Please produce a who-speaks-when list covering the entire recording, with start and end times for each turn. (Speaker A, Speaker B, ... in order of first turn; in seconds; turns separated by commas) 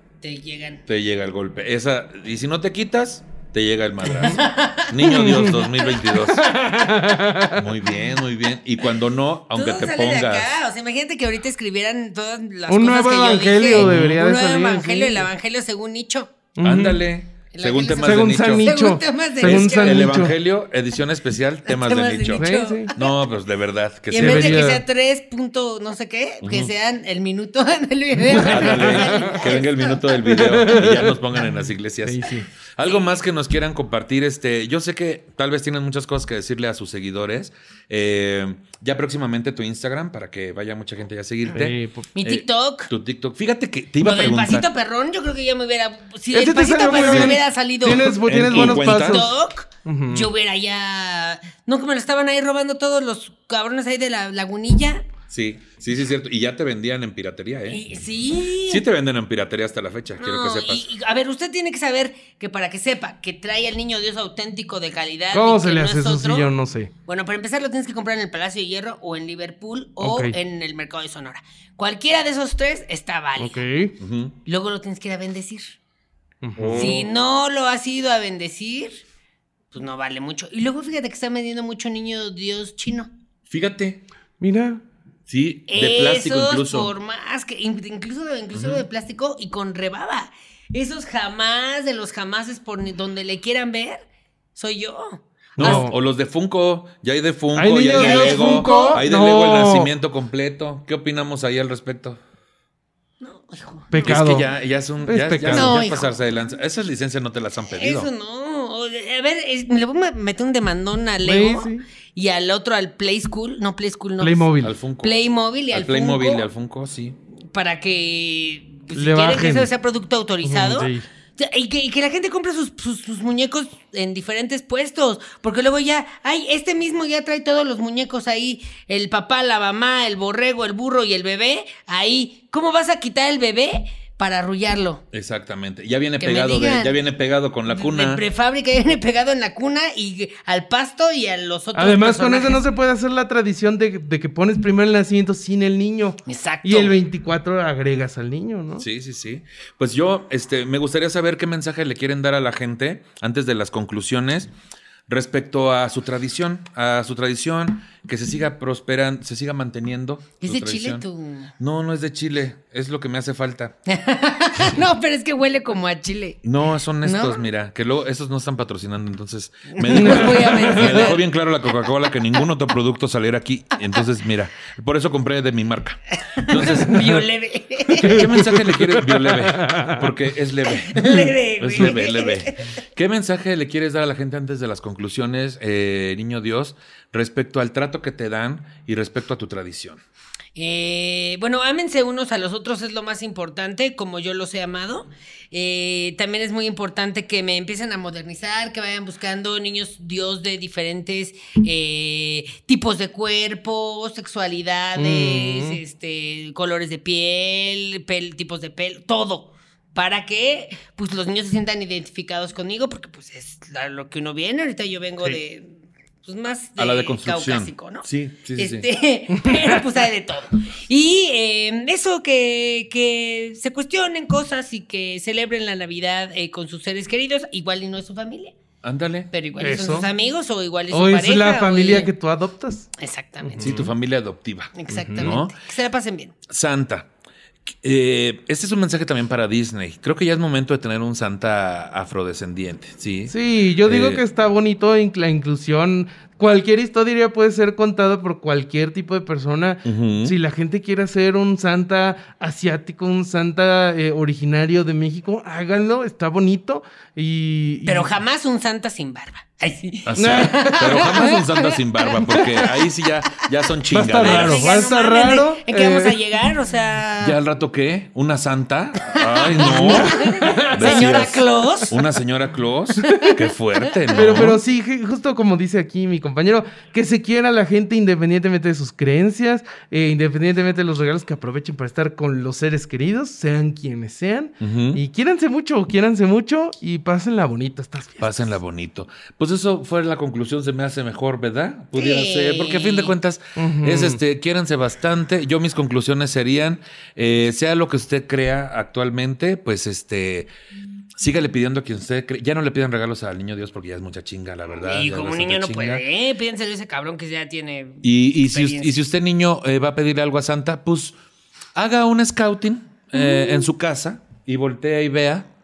Speaker A: 0.2-0.8, Speaker B: 0.9-6.5, Speaker A: 4.1-5.7, Speaker C: 5.0-7.6, Speaker B: 7.5-10.5, Speaker A: 9.5-16.3, Speaker C: 12.7-15.3, Speaker B: 13.8-14.2, Speaker C: 16.6-17.1, Speaker B: 16.6-18.7, Speaker A: 17.5-20.2, Speaker C: 18.0-20.4, Speaker B: 19.4-24.7, Speaker A: 21.7-23.1, Speaker C: 22.4-22.9, Speaker A: 24.1-30.0, Speaker C: 24.1-24.8, Speaker B: 26.4-26.7, Speaker C: 28.3-29.5, Speaker B: 28.4-32.2, Speaker C: 30.2-31.5, Speaker C: 32.0-32.5, Speaker B: 32.8-44.7, Speaker C: 41.5-42.1, Speaker A: 42.1-42.9, Speaker A: 44.0-55.0, Speaker C: 46.3-50.3, Speaker B: 46.9-47.4, Speaker B: 48.2-49.3, Speaker B: 55.3-57.8, Speaker A: 57.7-58.8, Speaker B: 58.7-60.9, Speaker A: 60.2-66.5, Speaker C: 65.3-66.9, Speaker A: 67.1-73.6, Speaker C: 70.0-70.3, Speaker C: 73.4-74.0, Speaker B: 74.0-74.3, Speaker A: 74.5-75.8, Speaker C: 76.4-77.0, Speaker B: 76.6-77.1, Speaker A: 76.8-79.0, Speaker A: 79.7-83.1, Speaker B: 83.5-84.0, Speaker C: 84.4-84.8, Speaker B: 85.3-86.9, Speaker A: 85.7-95.9, Speaker B: 88.5-88.8, Speaker B: 95.6-102.2, Speaker C: 95.6-95.9, Speaker C: 97.5-99.9, Speaker A: 98.0-99.0, Speaker A: 103.2-104.2, Speaker C: 103.9-104.5, Speaker B: 104.0-108.1, Speaker C: 105.0-105.8, Speaker A: 105.5-106.1, Speaker A: 107.7-114.5, Speaker C: 111.2-111.9, Speaker C: 114.2-114.8, Speaker B: 114.6-117.2, Speaker A: 115.0-116.5, Speaker A: 117.5-135.0, Speaker C: 119.0-119.7, Speaker C: 120.4-121.1, Speaker B: 135.1-138.2, Speaker A: 136.2-136.9, Speaker A: 137.7-142.6, Speaker C: 141.8-148.9, Speaker A: 146.3-146.9, Speaker B: 148.8-154.5, Speaker B: 155.1-161.1, Speaker A: 160.4-161.5, Speaker B: 161.6-163.8, Speaker A: 163.9-166.4, Speaker B: 166.4-177.2, Speaker A: 167.0-167.4, Speaker A: 169.7-171.2, Speaker C: 169.9-171.1, Speaker A: 176.2-178.3, Speaker B: 178.0-190.0, Speaker C: 178.0-180.1, Speaker A: 180.9-182.7, Speaker A: 190.6-228.6, Speaker C: 205.0-205.8, Speaker B: 216.8-218.9, Speaker C: 219.4-219.8, Speaker B: 228.8-229.3, Speaker A: 229.3-232.1, Speaker C: 229.6-230.1, Speaker C: 230.9-232.9, Speaker A: 233.0-233.9, Speaker C: 233.5-233.8, Speaker B: 233.6-235.5, Speaker A: 234.8-236.3, Speaker C: 234.9-235.4, Speaker B: 236.5-237.1, Speaker B: 237.7-244.2, Speaker C: 243.3-258.1, Speaker B: 249.8-250.4, Speaker A: 257.9-262.4, Speaker B: 260.1-264.8, Speaker C: 260.2-261.2, Speaker C: 262.3-262.7, Speaker C: 263.9-266.2, Speaker A: 264.2-267.4, Speaker B: 267.2-274.6, Speaker A: 269.1-272.0, Speaker C: 269.6-271.3, Speaker C: 273.0-273.4, Speaker C: 274.1-288.5, Speaker B: 284.6-285.0, Speaker B: 288.2-300.5, Speaker A: 291.9-293.1, Speaker C: 293.6-294.2, Speaker B: 301.2-306.0, Speaker A: 304.8-309.0, Speaker B: 308.0-311.2, Speaker B: 311.8-315.5